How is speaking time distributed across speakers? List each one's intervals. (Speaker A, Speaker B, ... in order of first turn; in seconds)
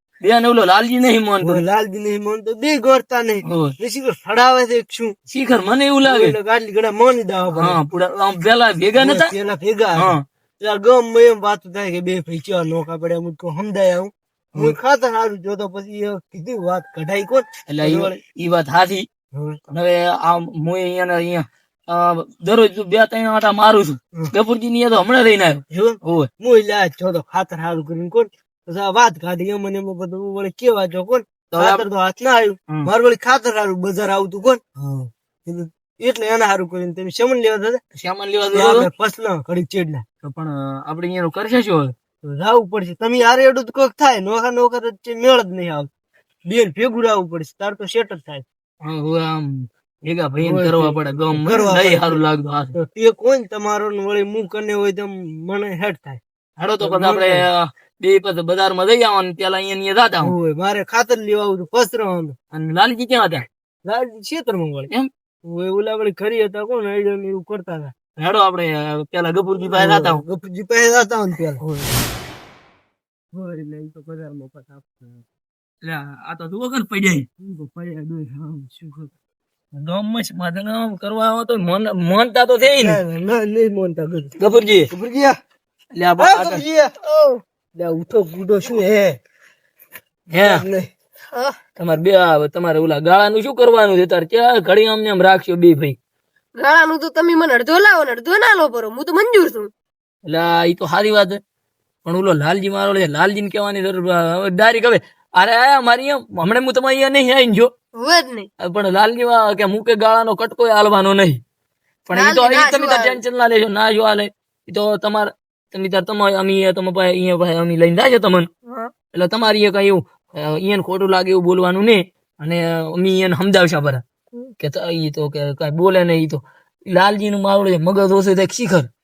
Speaker A: 0.2-1.6, 3.4-3.7, 5.3-6.3, 7.5-9.3, 9.9-10.2, 17.7-19.1, 19.7-26.3, 31.5-31.8, 38.0-38.9, 40.2-41.9, 48.8-52.7, 56.6-60.3, 62.5-63.5, 68.2-70.2, 71.6-71.9, 75.8-77.2, 79.8-83.0, 84.4-84.9, 85.9-86.6, 90.3-90.6, 91.8-96.0, 100.2-101.4, 102.0-107.7, 108.6-111.4, 112.1-118.5, 119.1-124.0, 124.6-128.9
Speaker B: 1.4-5.1, 6.0-7.8, 8.9-18.1, 19.3-19.6, 25.7-34.7, 35.5-37.8, 38.5-40.0, 42.2-45.9, 46.5-48.4, 50.4-52.2, 52.8-56.2, 56.8-57.5, 60.2-62.4, 63.8-64.9, 65.4-67.9, 69.8-71.6, 73.3-75.2, 77.4-79.1, 82.6-84.3, 84.9-85.4, 86.2-86.9, 87.8-89.2, 90.4-90.9
Speaker C: 87.0-87.4, 91.3-91.6, 96.6-99.7, 108.0-108.5, 112.1-113.2